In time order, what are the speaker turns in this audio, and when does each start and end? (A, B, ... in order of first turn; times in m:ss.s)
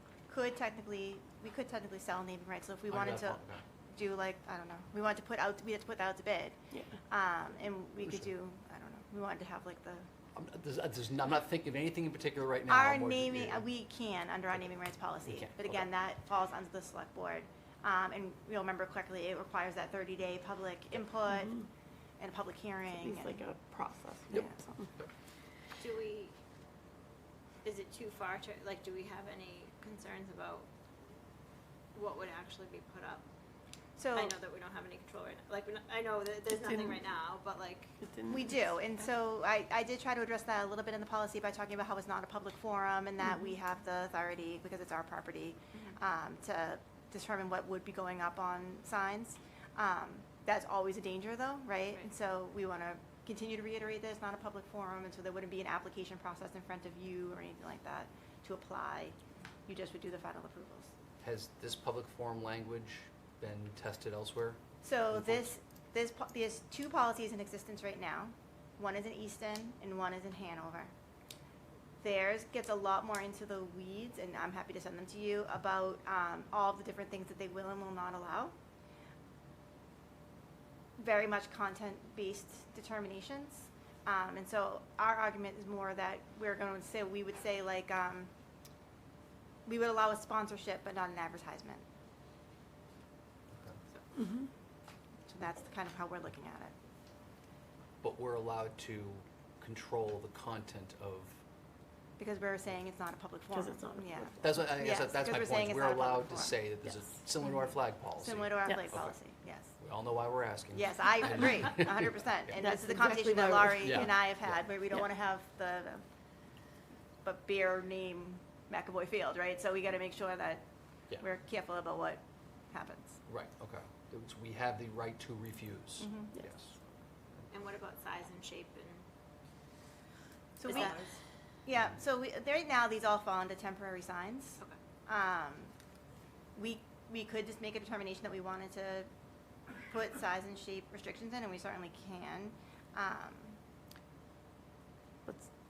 0:00.3-0:10.0 A
0:02.9-0:03.6 B
0:10.3-0:13.6 B
0:12.7-0:21.6 A
0:15.2-0:15.8 B
0:21.3-0:21.6 C
0:22.2-0:23.4 A
0:22.9-0:24.9 C
0:24.3-0:25.1 B
0:25.8-0:26.3 D
0:27.6-0:30.7 D
0:31.9-0:33.2 D
0:34.0-0:34.3 A
0:34.1-0:37.9 D
0:36.5-0:37.0 C
0:38.0-0:38.6 C
0:38.3-0:59.2 A
0:59.7-1:00.9 A
1:01.2-1:05.5 B
1:04.8-1:10.9 A
1:12.0-1:18.5 A
1:21.0-1:28.3 A
1:29.6-1:31.8 A
1:34.1-1:34.5 C
1:35.3-1:36.7 A
1:38.0-1:41.4 B
1:42.2-1:46.6 A
1:43.5-1:44.5 C
1:44.4-1:49.2 B
1:48.2-1:49.7 A
1:49.8-1:52.3 B
1:50.7-1:56.0 A
1:52.6-1:54.1 C
1:53.8-1:54.6 B
1:57.2-2:00.6 A
2:01.2-2:03.2 A
2:03.2-2:06.7 B
2:06.0-2:06.4 A
2:07.5-2:09.0 D
2:10.6-2:11.0 A
2:10.7-2:11.1 D
2:11.6-2:15.7 A
2:16.5-2:19.1 A
2:19.8-2:23.6 A